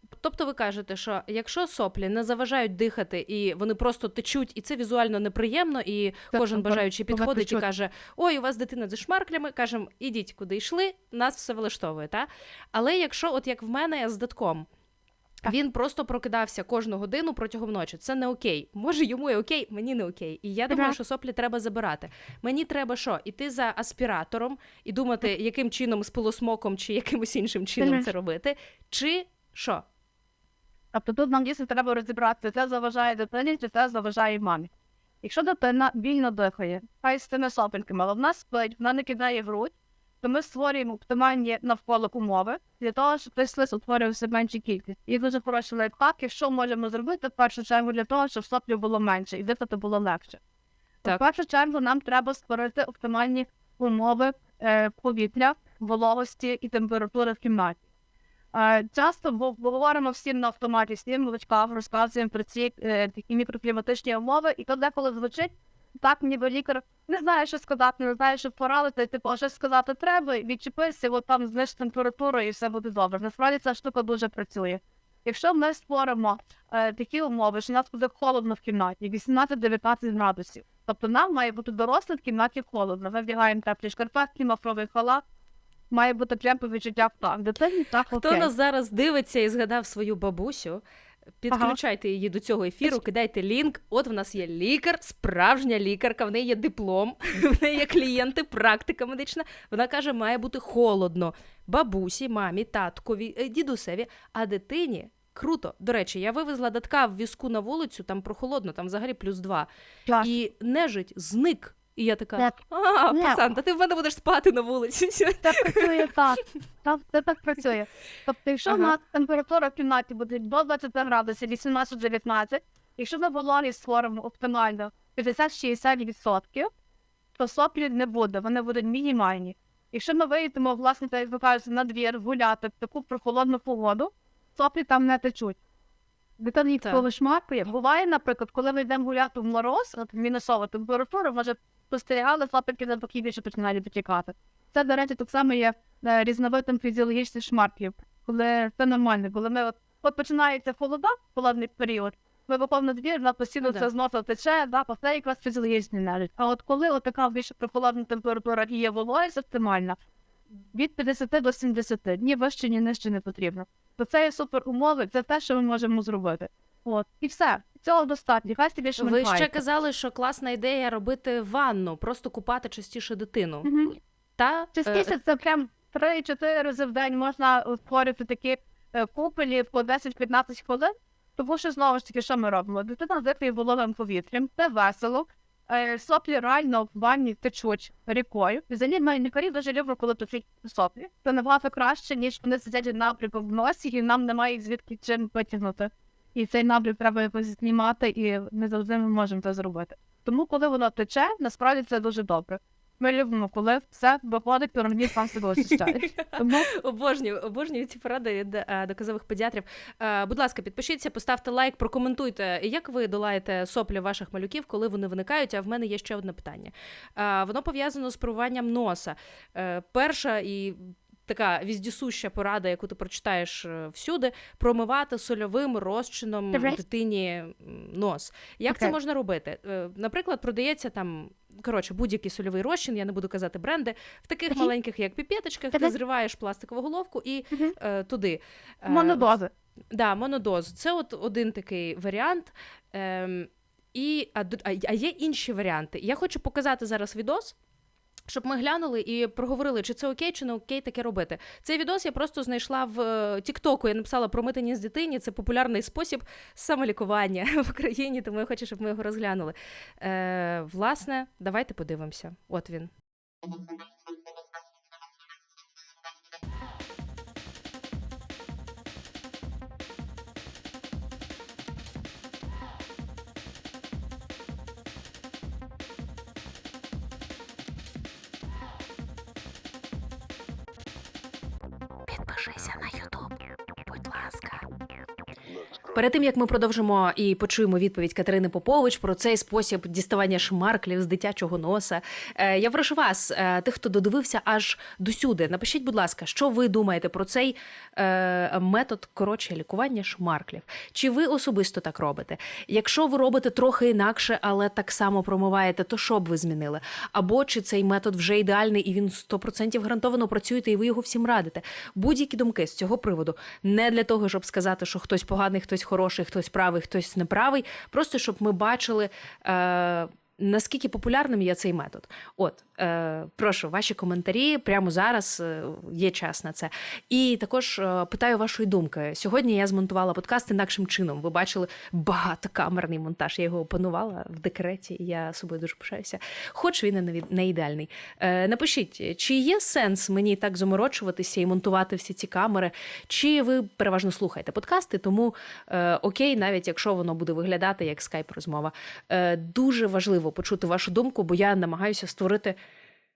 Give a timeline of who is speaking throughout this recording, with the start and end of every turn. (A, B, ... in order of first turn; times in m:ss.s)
0:00.1-0:14.6 A
0:06.3-0:07.6 B
0:15.4-0:29.8 A
0:20.7-0:21.0 B
0:27.8-0:28.1 B
0:30.9-0:34.7 B
0:35.2-0:50.4 B
0:51.0-0:57.8 B
0:58.5-1:25.2 B
1:25.9-1:28.5 B
1:28.1-1:30.8 A
1:31.4-1:49.7 A
1:31.5-1:31.8 B
1:50.1-1:50.3 B
1:50.2-1:56.1 A
1:53.1-1:53.4 B
1:55.4-2:06.7 B
1:58.6-1:58.9 A
2:07.4-2:15.6 B
2:16.4-2:40.0 B
2:33.6-2:33.9 A
2:40.7-2:49.6 B
2:49.0-2:53.7 A
2:53.6-2:54.0 B
2:54.4-2:55.1 A
2:54.8-3:26.7 B
3:25.8-3:59.3 A
3:46.5-3:46.8 B
3:48.7-3:48.9 B
3:58.9-3:59.5 B
3:59.9-4:07.6 A
4:08.3-4:22.9 A
4:42.1-4:44.6 A
4:45.9-5:52.6 A